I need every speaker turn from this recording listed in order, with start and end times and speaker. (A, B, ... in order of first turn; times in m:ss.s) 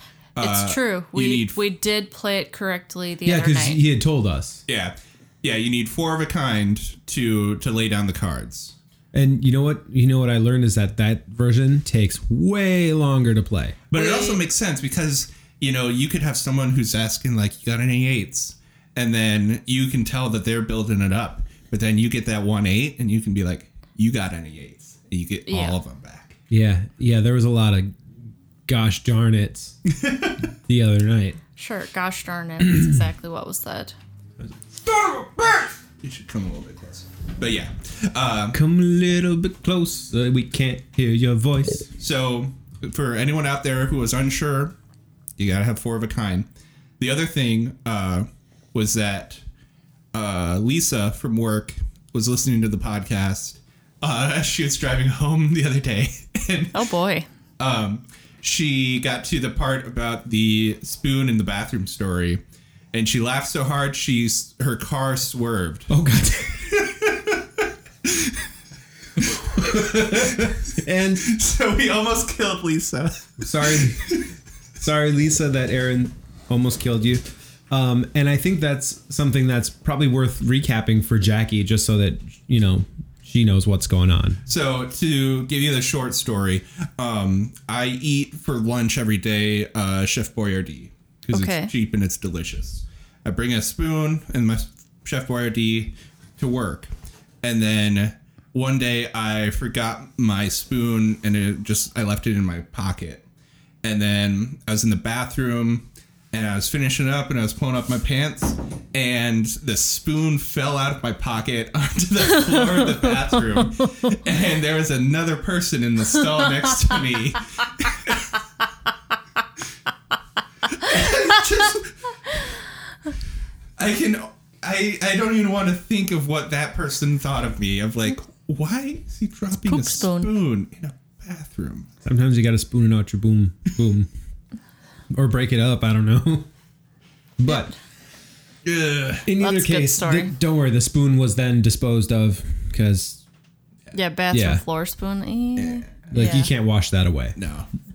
0:00.4-0:01.6 A
0:00.4-0:03.8 B
0:03.2-0:04.6 C
0:04.7-0:08.7 A
0:09.1-0:13.8 C
0:13.9-0:26.3 A
0:13.9-0:14.4 B
0:25.5-0:25.8 B
0:26.5-0:28.0 C
0:28.7-0:29.8 C
0:29.8-0:30.4 A
0:30.7-0:31.4 C
0:31.6-0:33.9 B
0:34.4-0:35.7 C
0:36.0-0:38.6 A
0:38.5-0:41.9 C
0:42.0-0:44.7 A
0:45.4-0:46.5 A
0:47.0-0:49.4 A
0:50.1-0:56.8 A
0:56.7-0:57.2 B
0:57.6-1:02.4 A
1:02.9-1:05.9 A
1:05.9-1:06.7 C
1:06.7-1:08.5 A
1:09.2-1:10.7 A
1:09.4-1:11.3 C
1:11.2-1:14.3 A
1:13.4-1:14.2 C
1:14.8-1:24.4 C
1:24.4-1:36.9 A
1:31.3-1:31.7 B
1:37.4-1:43.2 A
1:43.8-1:58.4 A
1:52.6-1:53.1 B
2:00.7-2:02.2 A
2:03.8-2:11.9 A
2:09.6-2:10.3 B
2:12.0-2:14.1 C
2:15.1-2:16.5 C
2:17.4-2:17.7 C
2:17.4-2:17.7 B
2:18.6-2:19.3 A
2:19.3-2:23.2 C
2:19.4-2:20.3 B
2:23.9-2:26.5 B
2:24.3-2:24.6 C
2:25.6-2:25.9 A
2:26.1-2:27.4 C
2:27.4-2:27.7 A